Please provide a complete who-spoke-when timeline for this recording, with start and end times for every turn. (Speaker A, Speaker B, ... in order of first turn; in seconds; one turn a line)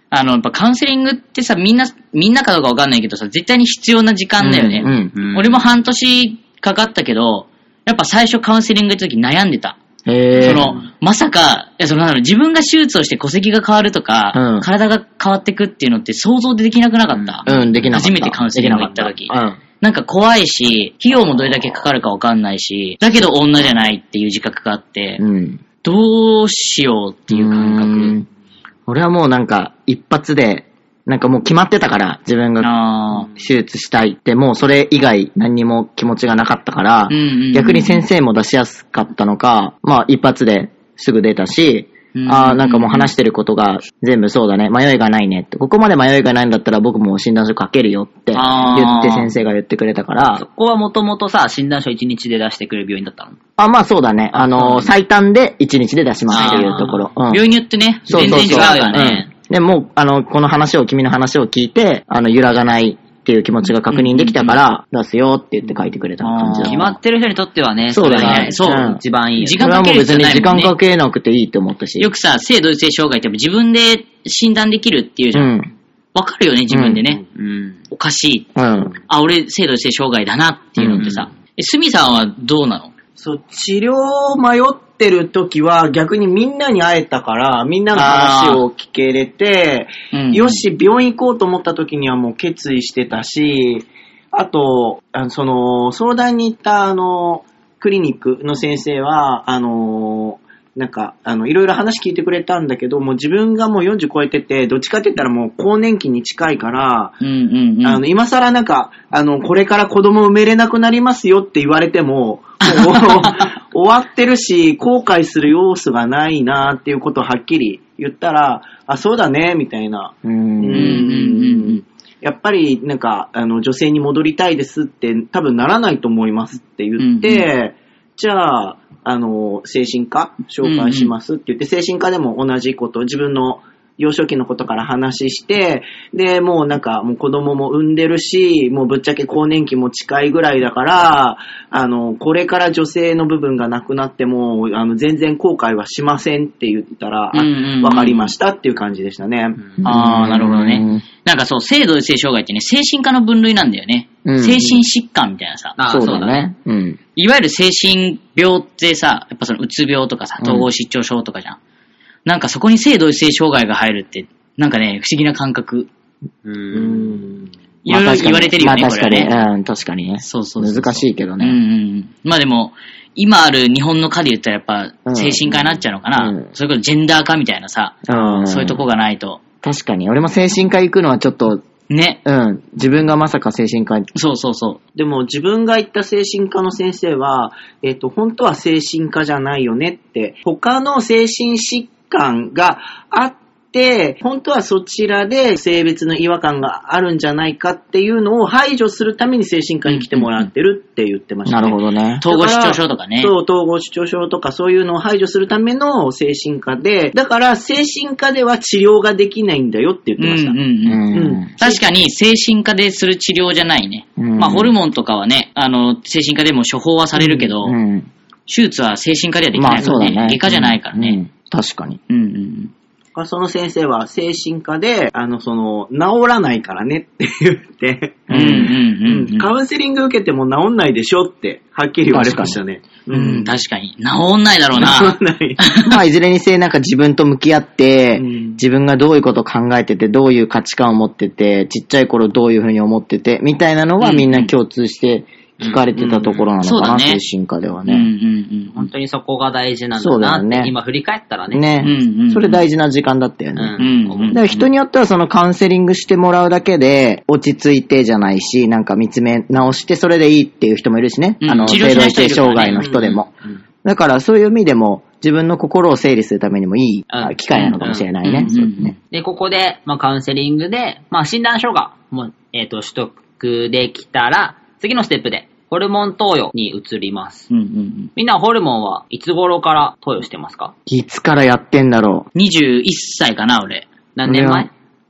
Speaker A: 0.1-9.8
Speaker B: 4.4-5.1
Speaker C: 5.1-5.6
Speaker B: 10.1-10.8
Speaker C: 10.4-10.8
Speaker A: 10.4-25.2
Speaker B: 14.3-14.7
Speaker B: 17.4-19.6
Speaker B: 21.4-21.8
Speaker B: 25.2-25.6
Speaker A: 25.8-28.1
Speaker B: 27.3-28.2
Speaker B: 28.9-50.4
Speaker A: 32.6-33.3
Speaker A: 37.1-38.0
Speaker A: 42.1-43.1
Speaker A: 48.3-49.3
Speaker C: 50.4-53.4
Speaker B: 53.6-57.4
Speaker C: 54.3-54.9
Speaker C: 56.3-57.0
Speaker A: 56.3-59.1
Speaker B: 58.1-66.9
Speaker C: 58.1-59.3
Speaker A: 63.9-64.6
Speaker A: 66.2-66.9
Speaker C: 66.6-69.7
Speaker B: 67.9-69.0
Speaker A: 68.0-70.8
Speaker B: 69.6-72.1
Speaker A: 72.0-75.5
Speaker B: 75.3-75.7
Speaker A: 76.1-77.2
Speaker B: 76.7-77.1
Speaker C: 77.3-77.8
Speaker A: 77.9-82.9
Speaker B: 78.6-78.9
Speaker B: 80.8-81.1
Speaker D: 83.2-107.2
Speaker A: 87.9-88.6
Speaker A: 90.1-90.6
Speaker A: 107.2-108.0
Speaker D: 107.8-149.7
Speaker A: 112.9-113.2
Speaker B: 120.2-121.0
Speaker A: 120.7-121.8
Speaker A: 127.0-127.5
Speaker A: 130.6-131.1
Speaker A: 147.3-148.3
Speaker B: 149.8-151.0
Speaker A: 149.8-155.8
Speaker B: 154.2-154.8
Speaker C: 155.8-156.4
Speaker B: 155.9-157.0
Speaker A: 157.2-161.6
Speaker B: 160.4-160.7
Speaker A: 162.2-165.9
Speaker C: 166.4-167.2
Speaker D: 166.7-167.3
Speaker A: 167.8-169.4
Speaker B: 167.9-171.6
Speaker A: 170.2-179.4
Speaker B: 175.1-176.5
Speaker B: 178.1-178.8
Speaker B: 179.6-181.6
Speaker A: 181.9-182.2
Speaker B: 182.2-184.1
Speaker A: 184.2-184.8
Speaker D: 184.9-210.6
Speaker A: 199.9-200.5
Speaker B: 201.4-202.2
Speaker A: 202.2-203.3
Speaker A: 210.2-217.8
Speaker B: 210.8-211.5
Speaker D: 211.1-211.9
Speaker B: 214.2-214.7
Speaker B: 217.2-218.1
Speaker A: 218.5-221.2
Speaker B: 219.6-222.0
Speaker A: 222.1-222.7
Speaker D: 223.2-233.5
Speaker B: 228.3-228.7
Speaker A: 228.3-229.5
Speaker B: 232.1-232.6
Speaker A: 233.1-236.0
Speaker D: 234.8-235.6
Speaker B: 235.8-248.1
Speaker D: 238.2-238.6
Speaker A: 244.0-244.5
Speaker C: 245.6-246.4
Speaker A: 246.6-247.2
Speaker A: 247.9-248.9
Speaker C: 248.7-251.8
Speaker B: 250.0-250.7
Speaker B: 251.5-263.3
Speaker A: 251.8-252.6
Speaker C: 253.6-254.7
Speaker A: 253.8-254.4
Speaker A: 261.4-262.9
Speaker D: 262.8-263.1
Speaker B: 263.8-268.9
Speaker C: 267.1-268.1
Speaker A: 267.6-268.9
Speaker C: 269.1-277.5
Speaker A: 277.5-278.1
Speaker C: 278.2-280.7
Speaker B: 280.9-282.3
Speaker A: 282.3-283.9
Speaker C: 284.2-284.7
Speaker B: 284.2-284.7